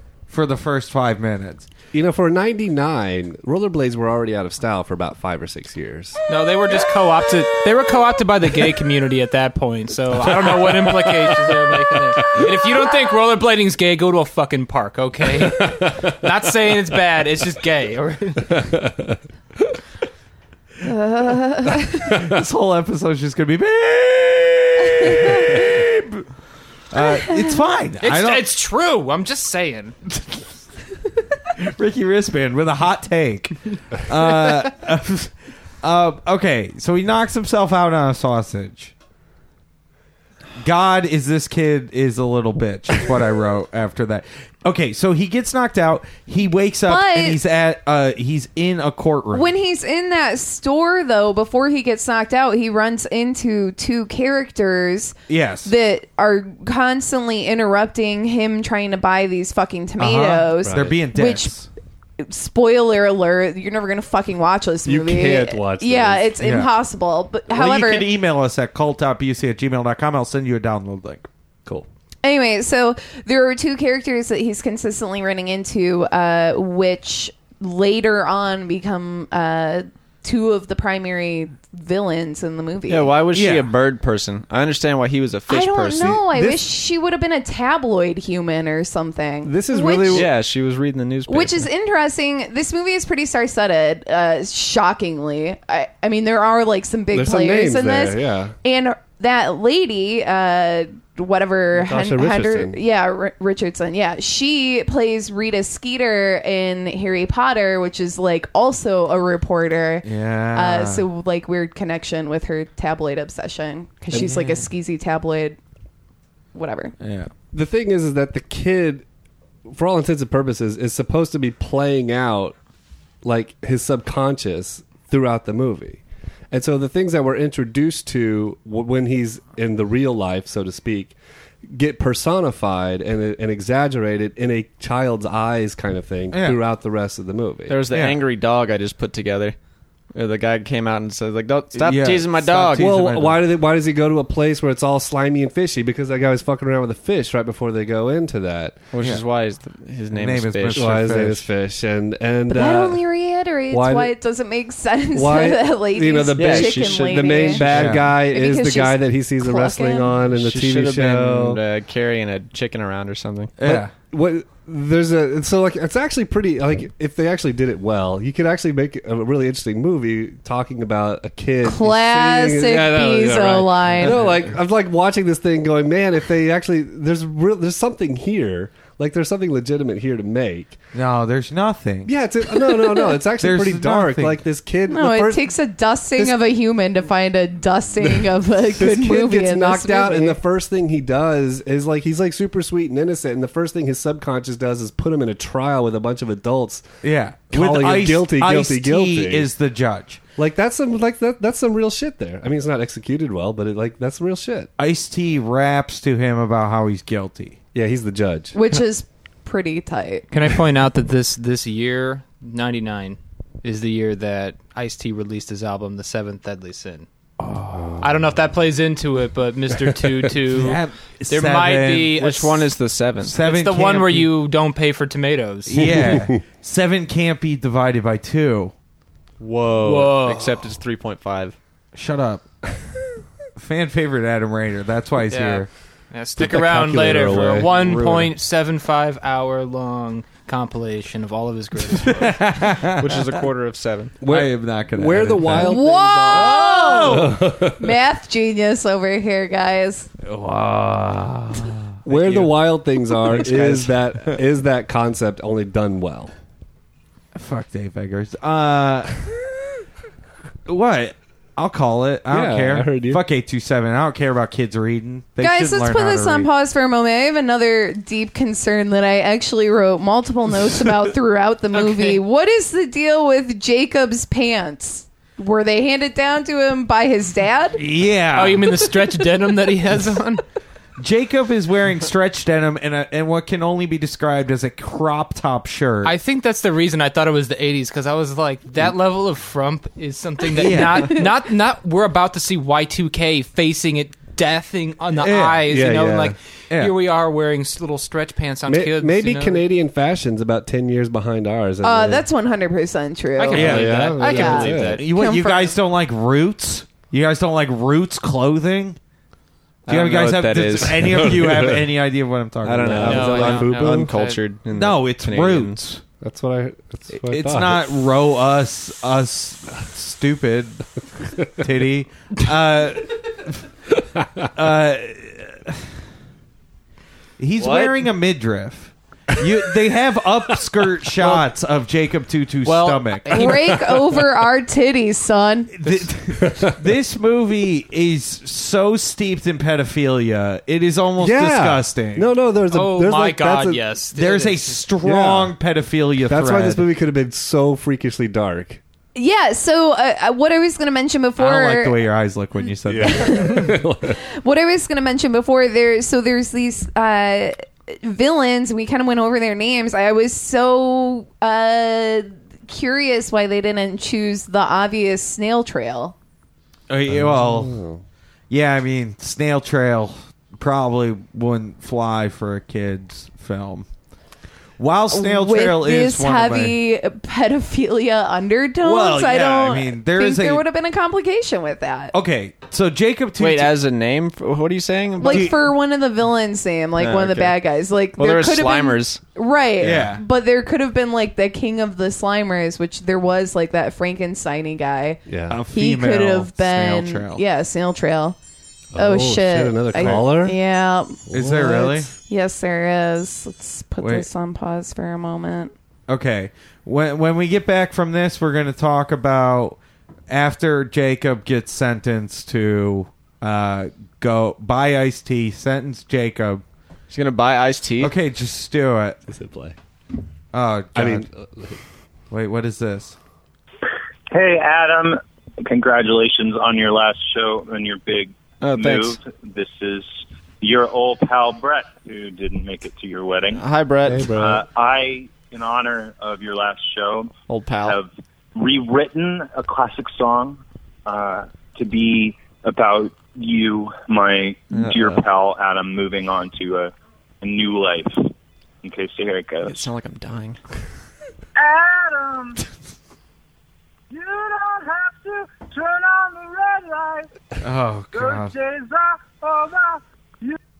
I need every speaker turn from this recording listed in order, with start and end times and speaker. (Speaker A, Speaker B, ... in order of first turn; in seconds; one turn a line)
Speaker A: 0.3-1.7
Speaker B: 1.9-6.2
Speaker C: 6.3-18.6
Speaker B: 18.6-19.1
Speaker D: 20.8-22.0
Speaker A: 22.0-26.2
Speaker A: 26.9-28.5
Speaker C: 28.0-29.9
Speaker A: 31.6-38.9
Speaker A: 40.6-49.5
Speaker D: 46.9-47.4
Speaker D: 49.3-61.5
Speaker A: 55.3-55.7
Speaker A: 60.0-61.7
Speaker B: 60.6-61.0
Speaker D: 62.2-68.1
Speaker B: 64.8-66.3
Speaker A: 66.4-66.7
Speaker A: 67.5-71.2
Speaker D: 72.2-83.1
Speaker E: 82.9-86.2
Speaker A: 83.3-83.7
Speaker D: 85.5-90.3
Speaker B: 86.3-86.6
Speaker B: 89.4-90.3
Speaker E: 90.1-91.7
Speaker D: 91.3-115.6
Speaker B: 97.1-98.5
Speaker B: 101.7-102.8
Speaker A: 110.0-111.0
Speaker A: 114.1-114.6
Speaker D: 116.5-116.9
Speaker A: 117.0-117.3
Speaker B: 117.5-119.0
Speaker B: 119.7-122.5
Speaker B: 123.2-131.1
Speaker B: 131.7-137.8
Speaker A: 136.3-136.6
Speaker E: 137.7-139.6
Speaker A: 137.9-138.2
Speaker E: 140.1-143.1
Speaker A: 141.8-143.4
Speaker B: 142.8-148.8
Speaker E: 148.9-150.9
Speaker A: 150.1-151.5
Speaker B: 150.7-153.0
Speaker D: 152.5-160.1
Speaker B: 153.7-154.1
Speaker B: 155.1-161.6
Speaker E: 156.3-158.0
Speaker A: 157.6-158.2
Speaker E: 160.3-163.5
Speaker A: 163.6-163.9
Speaker B: 163.6-180.8
Speaker D: 171.6-174.2
Speaker A: 174.0-174.4
Speaker A: 180.9-182.1
Speaker B: 182.1-185.5
Speaker A: 183.4-184.4
Speaker D: 184.9-190.4
Speaker B: 188.8-196.9
Speaker A: 197.0-200.2
Speaker B: 197.5-199.5
Speaker B: 200.4-204.7
Speaker A: 204.8-207.6
Speaker B: 207.7-208.6
Speaker D: 208.5-210.2
Speaker C: 210.3-217.1
Speaker B: 217.5-218.0
Speaker C: 218.0-222.6
Speaker A: 220.5-222.1
Speaker E: 222.1-223.4
Speaker A: 223.2-224.3
Speaker C: 223.4-226.0
Speaker A: 225.7-228.7
Speaker B: 225.8-226.4
Speaker E: 229.4-231.6
Speaker C: 229.8-230.5
Speaker A: 231.9-232.4
Speaker A: 233.6-235.7
Speaker C: 235.3-242.4
Speaker B: 236.4-238.0
Speaker A: 237.3-238.3
Speaker A: 241.9-243.5
Speaker E: 242.9-244.2
Speaker B: 244.2-247.8
Speaker A: 244.2-247.4
Speaker D: 245.6-247.2
Speaker D: 247.8-250.1
Speaker A: 250.2-252.5
Speaker B: 252.1-256.3
Speaker A: 253.2-254.4
Speaker A: 257.3-259.3
Speaker A: 260.7-266.5
Speaker B: 262.3-263.2
Speaker D: 265.4-277.8
Speaker C: 271.8-272.2
Speaker A: 277.8-278.9
Speaker C: 278.3-280.4
Speaker A: 281.0-286.1
Speaker C: 286.0-299.6
Speaker A: 290.5-291.2
Speaker A: 295.2-295.6
Speaker B: 295.7-296.4
Speaker B: 298.7-302.3
Speaker D: 301.8-303.7
Speaker C: 303.4-305.0
Speaker B: 303.5-305.0
Speaker A: 303.6-304.0
Speaker E: 303.7-305.0
Speaker A: 305.0-309.0
Speaker D: 305.1-305.6
Speaker E: 309.9-311.4
Speaker A: 309.9-313.4
Speaker B: 310.9-311.9
Speaker E: 312.6-315.8
Speaker B: 312.8-314.1
Speaker C: 313.0-314.4
Speaker A: 314.7-316.0
Speaker B: 316.2-317.8
Speaker A: 317.2-320.8
Speaker A: 321.4-323.6
Speaker A: 324.5-325.8
Speaker A: 327.4-333.7
Speaker E: 327.6-328.1
Speaker E: 332.6-333.1
Speaker C: 333.3-333.7
Speaker D: 333.3-335.7
Speaker A: 335.7-342.3
Speaker B: 336.4-336.8
Speaker B: 341.2-343.8
Speaker C: 342.7-344.8
Speaker A: 344.1-346.9
Speaker B: 345.0-345.5
Speaker B: 346.3-348.8
Speaker D: 349.1-352.0
Speaker A: 351.4-353.6
Speaker B: 352.9-354.2
Speaker D: 353.0-353.7
Speaker D: 354.4-366.1
Speaker A: 366.9-367.8
Speaker B: 367.1-368.0
Speaker A: 368.5-373.9
Speaker A: 374.8-376.8
Speaker D: 375.1-382.1
Speaker A: 378.8-380.6
Speaker A: 382.1-383.7
Speaker E: 383.4-385.5
Speaker D: 385.2-395.2
Speaker A: 385.2-385.6
Speaker E: 387.0-387.6
Speaker E: 388.1-389.2
Speaker A: 389.8-390.2
Speaker B: 395.3-395.6
Speaker A: 395.5-397.4
Speaker D: 395.7-398.4
Speaker B: 398.9-400.6
Speaker D: 399.0-401.2
Speaker A: 400.0-400.2
Speaker B: 401.3-402.1
Speaker A: 401.3-402.1
Speaker D: 402.2-405.7
Speaker A: 404.0-404.3
Speaker A: 406.1-416.6
Speaker E: 417.1-418.1
Speaker A: 418.0-419.2
Speaker B: 419.3-419.7
Speaker A: 420.5-421.3
Speaker B: 420.9-421.8
Speaker A: 422.3-423.1
Speaker F: 424.3-433.6
Speaker E: 428.6-429.2
Speaker E: 433.5-434.3
Speaker B: 434.1-434.6
Speaker F: 434.3-437.3
Speaker E: 437.5-438.0
Speaker F: 437.8-448.3
Speaker E: 444.7-445.2
Speaker F: 448.8-449.9
Speaker E: 449.6-450.6
Speaker A: 457.6-458.6